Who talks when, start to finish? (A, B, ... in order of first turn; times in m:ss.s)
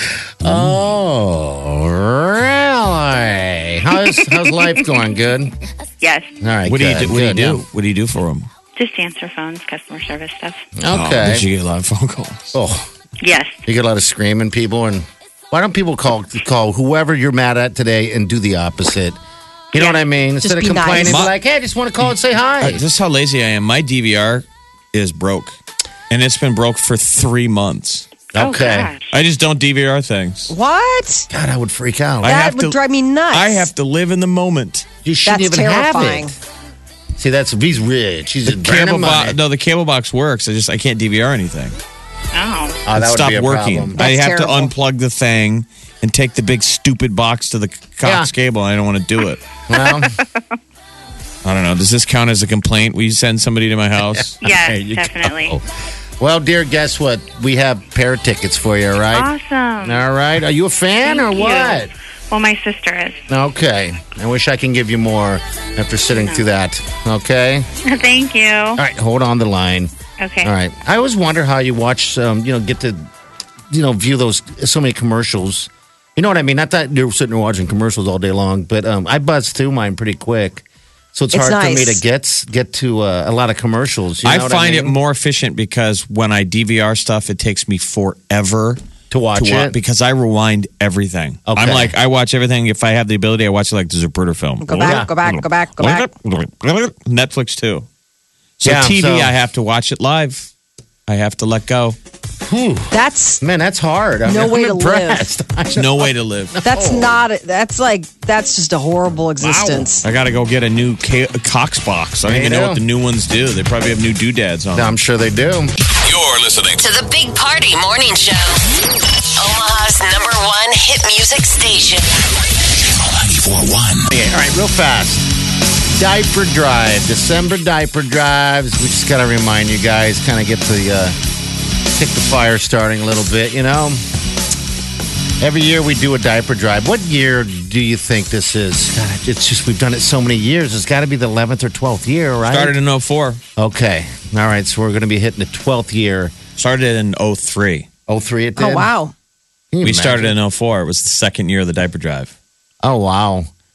0:00.4-0:05.5 A
0:00.4-0:00.8 B
0:06.0-0:06.3 C
0:06.4-0:07.6 A
0:06.7-0:08.5 B
0:08.8-0:10.7 C
0:10.8-0:11.5 A
0:10.9-0:12.5 B
0:12.5-0:12.9 A
0:13.2-0:13.6 C
0:13.7-0:19.2 A
0:19.7-0:22.8 A
0:19.8-0:21.2 D
0:21.1-0:21.3 B
0:22.1-0:25.6 B
0:26.1-0:28.1 B
0:28.3-0:28.9 A
0:28.4-0:29.1 C
0:29.1-0:30.5 B
0:30.5-0:31.3 D
0:31.3-0:32.4 A
0:32.2-0:32.8 B
0:32.2-0:33.7 D
0:33.3-0:34.9 B
0:35.0-0:36.4 A
0:35.3-0:36.4 D
0:37.2-0:39.4 A
0:38.5-0:41.8 B
0:42.3-0:42.8 C
0:42.9-0:44.0 A
0:42.9-0:49.4 B
0:44.0-0:44.7 D
0:48.0-0:48.3 A
0:49.7-0:50.2 A
0:49.7-0:50.2 C
0:51.4-0:54.4 B
0:54.1-0:55.6 A
0:54.4-0:55.6 C
0:56.2-0:59.3 A
0:59.1-1:00.0 C
0:59.8-1:01.9 A
1:01.0-1:03.2 C
1:03.3-1:07.7 A
1:06.1-1:06.4 C
1:07.8-1:08.8 C
1:08.8-1:09.9 A
1:10.2-1:10.5 C
1:10.4-1:13.1 A
1:13.7-1:25.0 A
1:21.3-1:22.0 D
1:24.2-1:28.8 B
1:29.1-1:29.8 A
1:29.4-1:37.9 B
1:31.5-1:31.9 A
1:34.6-1:36.1 D
1:34.8-1:35.1 A
1:38.6-1:40.5 B
1:38.6-1:39.3 A
1:41.1-1:42.0 B
1:42.5-1:47.2 A
1:42.9-1:43.4 D
1:44.3-1:45.2 D
1:45.7-1:46.6 B
1:46.6-1:50.0 D
1:49.4-1:49.9 A
1:50.0-1:55.0 B
1:52.3-1:52.8 A
1:54.7-1:55.7 A
1:56.0-1:56.8 E
1:56.8-1:58.6 F
1:59.4-2:02.1 F
2:02.8-2:04.1 E
2:04.1-2:05.3 A
2:05.9-2:11.2 A
2:11.9-2:14.0 A
2:15.4-2:22.8 A
2:22.5-2:23.4 B
2:23.6-2:26.4 A
2:26.6-2:27.9 B
2:28.1-2:28.9 A
2:28.6-2:29.1 D
2:29.7-2:30.4 A
2:29.8-2:32.3 B
2:32.8-2:33.5 A